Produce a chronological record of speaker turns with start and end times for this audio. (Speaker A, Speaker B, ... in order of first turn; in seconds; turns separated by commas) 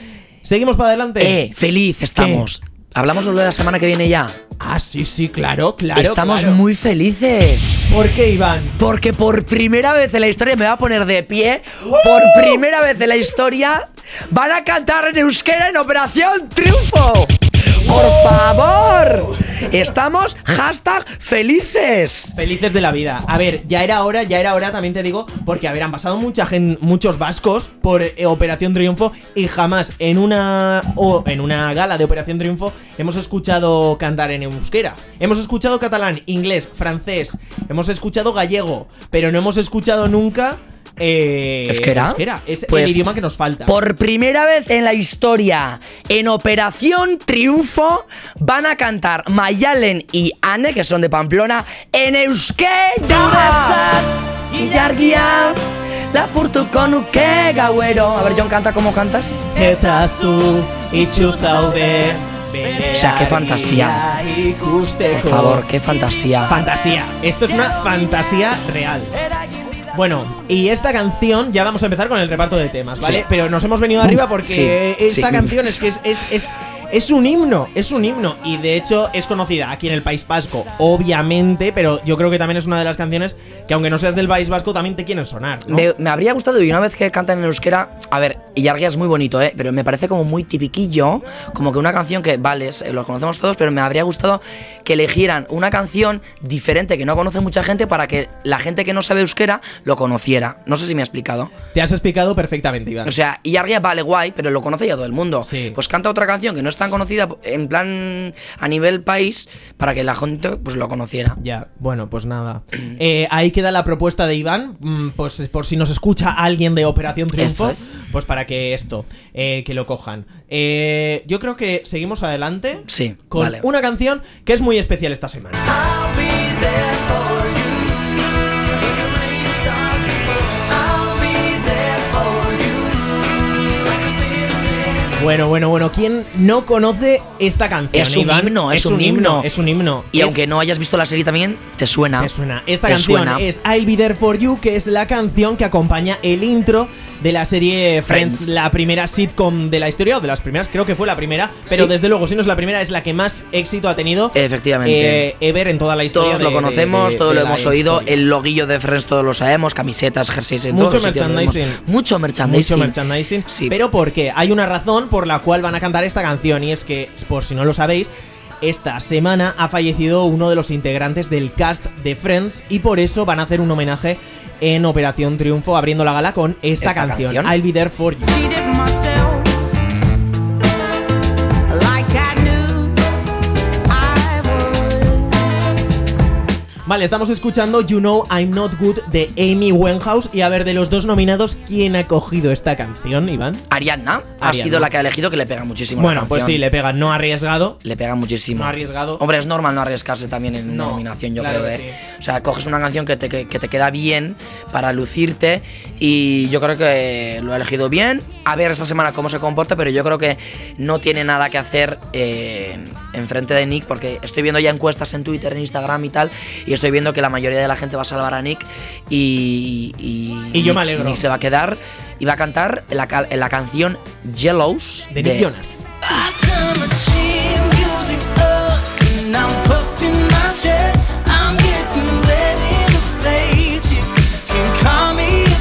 Speaker A: 0.4-1.4, Speaker B: 1.2-4.4, Speaker A: 2.1-2.5, Speaker A: 4.6-6.6, Speaker B: 5.9-7.8, Speaker A: 7.9-8.8, Speaker B: 8.8-22.4, Speaker A: 12.0-12.6, Speaker A: 17.8-18.4, Speaker A: 22.3-43.7, Speaker B: 41.7-43.1, Speaker B: 43.6-59.5, Speaker A: 53.2-53.9, Speaker A: 59.5-65.7, Speaker B: 62.9-64.0, Speaker B: 65.1-66.6, Speaker A: 66.4-69.1, Speaker A: 69.9-85.9, Speaker B: 74.0-75.8, Speaker B: 85.7-101.5, Speaker A: 101.7-103.1, Speaker B: 103.0-111.4, Speaker A: 105.4-105.8, Speaker A: 111.4-125.8, Speaker B: 117.4-117.8, Speaker B: 122.9-123.7, Speaker C: 125.8-128.0, Speaker C: 129.0-133.1, Speaker A: 135.1-140.5, Speaker B: 137.9-139.5, Speaker B: 140.1-142.3, Speaker A: 142.2-158.2, Speaker B: 142.8-143.4, Speaker B: 148.1-148.5, Speaker B: 154.3-155.2, Speaker B: 156.1-163.8, Speaker A: 160.7-161.8, Speaker A: 162.4-168.1, Speaker A: 168.6-178.4, Speaker B: 176.8-177.6, Speaker C: 178.3-179.5, Speaker C: 181.7-183.0, Speaker C: 183.9-185.3, Speaker A: 186.8-193.7, Speaker B: 193.7-196.6, Speaker A: 194.4-194.9, Speaker A: 196.0-197.8, Speaker B: 197.8-225.5, Speaker A: 198.5-199.2, Speaker A: 200.7-202.0, Speaker A: 220.5-221.2, Speaker A: 225.1-226.0, Speaker D: 226.2-231.9, Speaker D: 233.0-233.5, Speaker D: 234.5-235.1